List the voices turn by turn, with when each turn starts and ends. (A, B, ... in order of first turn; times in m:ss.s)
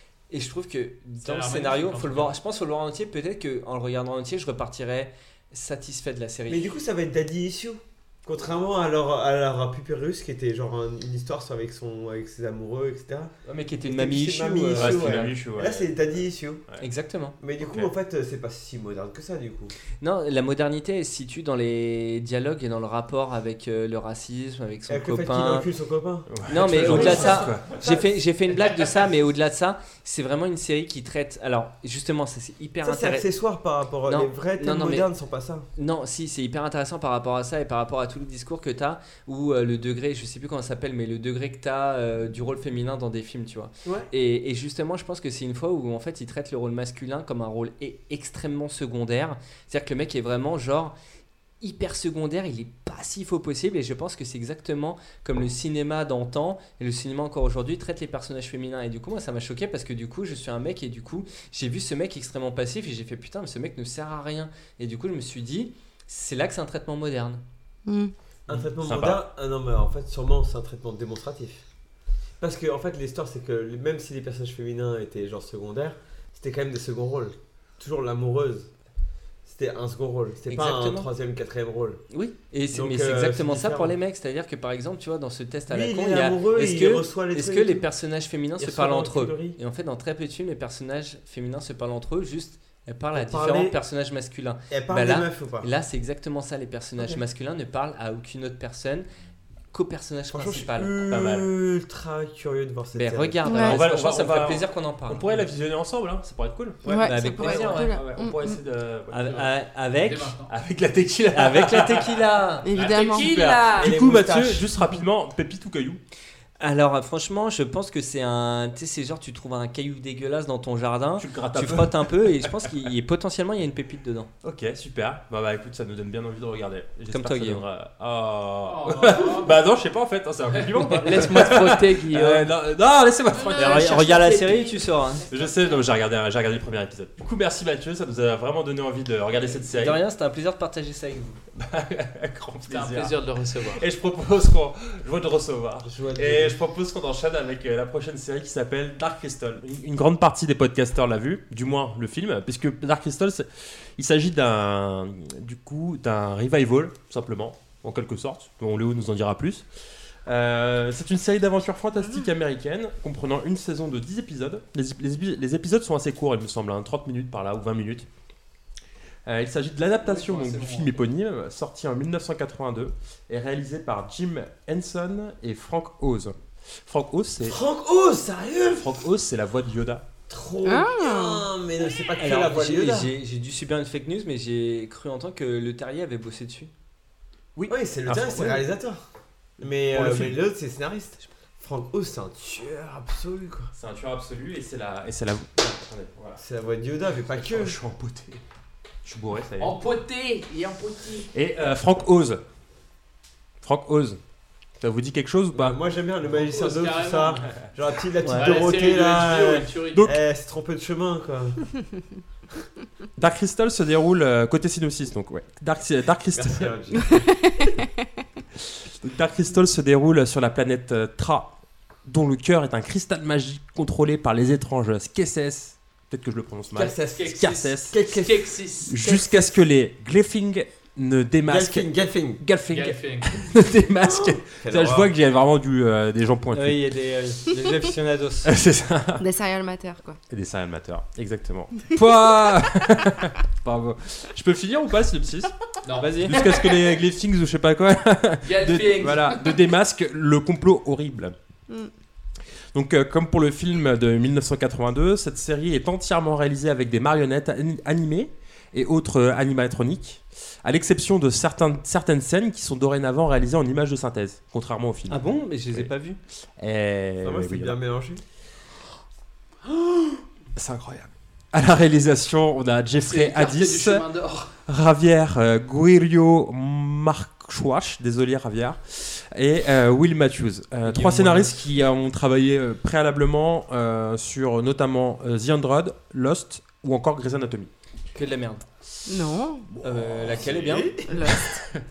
0:00.3-0:06.7 A
0:01.2-0:02.4 B
0:06.5-0:13.3 C
0:13.4-0:15.3 A
0:13.8-0:16.6 C
0:14.7-0:15.9 D
0:16.8-0:17.4 A
0:17.4-0:19.7 C
0:17.6-0:17.9 D
0:20.0-0:25.7 A
0:24.9-0:27.9 C
0:26.3-0:27.7 D
0:26.5-0:33.3 A
0:32.8-0:35.7 C
0:34.0-0:35.1 A
0:35.7-0:50.9 A
0:51.6-1:07.4 A
1:07.8-1:08.1 E
1:08.5-1:11.6 C
1:08.5-1:09.2 D
1:12.4-1:18.7 C
1:19.4-1:22.0 C
1:20.5-1:21.1 A
1:22.1-1:39.1 A
1:22.7-1:24.0 C
1:25.7-1:27.8 C
1:28.6-1:29.6 C
1:33.1-1:33.8 C
1:34.7-1:35.7 C
1:39.7-1:41.1 A
1:40.3-1:43.5 C
1:41.1-1:41.5 D
1:42.9-1:45.4 A
1:43.4-1:43.8 E
1:43.6-1:49.4 D
1:46.8-1:48.6 E
1:47.0-1:48.0 A
1:49.1-1:50.3 A
1:50.0-1:50.5 B
1:50.5-1:52.3 D
1:51.3-1:52.7 A
1:52.6-1:53.3 E
1:52.7-1:53.9 B
1:53.1-1:56.0 D
1:53.8-1:54.7 C
1:56.6-2:04.3 A
2:01.2-2:02.8 D
2:04.4-2:14.4 D
2:07.1-2:07.6 A
2:08.6-2:09.6 B
2:10.5-2:12.4 B
2:11.2-2:12.4 A
2:13.4-2:13.7 B
2:13.5-2:15.3 A
2:15.3-2:20.0 D
2:19.7-2:21.4 A
2:21.6-2:39.6 D
2:22.7-2:23.8 B
2:25.8-2:26.6 C
2:40.2-2:48.0 D
2:49.2-2:57.6 D
2:50.0-2:51.0 B
2:57.4-2:59.0 C
2:58.8-3:00.0 D
3:00.3-3:03.1 C
3:00.6-3:01.4 E
3:02.2-3:06.7 A
3:07.6-3:08.6 D
3:07.7-3:09.0 C
3:09.6-3:13.7 C
3:09.9-3:10.4 D
3:13.7-3:16.4 D
3:16.4-3:17.8 C
3:17.2-3:18.4 D
3:19.0-3:19.8 D
3:19.6-3:21.3 B
3:21.3-3:22.4 D
3:23.6-3:24.2 D
3:24.8-3:25.8 D
3:25.5-3:31.6 C
3:26.3-3:27.4 B
3:28.2-3:28.5 A
3:28.4-3:30.1 B
3:33.2-3:36.7 D
3:36.3-3:37.3 C
3:37.1-3:37.8 E
3:39.0-3:41.5 D
3:42.0-3:48.0 D
3:46.7-3:48.5 C
3:47.0-3:49.0 B
3:48.9-3:51.9 D
3:51.4-3:52.4 C
3:52.4-3:56.8 D
3:52.7-3:53.5 B
3:54.0-3:55.1 C
3:56.5-3:58.5 A
3:58.4-3:59.2 D
3:59.2-4:00.2 E
4:00.3-4:05.5 D
4:05.8-4:06.9 B
4:06.0-4:06.3 A
4:06.1-4:11.3 D
4:08.4-4:09.6 B
4:12.7-4:25.9 D
4:25.1-4:26.2 A
4:26.6-4:27.8 D
4:27.2-4:28.2 C
4:29.7-4:34.0 D
4:32.9-4:34.5 B
4:34.7-4:47.7 D
4:40.8-4:41.6 A
4:48.1-4:48.6 A
4:49.1-4:49.7 E
4:49.8-4:50.9 A
4:50.5-4:51.2 C
4:51.1-4:51.5 E
4:51.4-4:51.8 D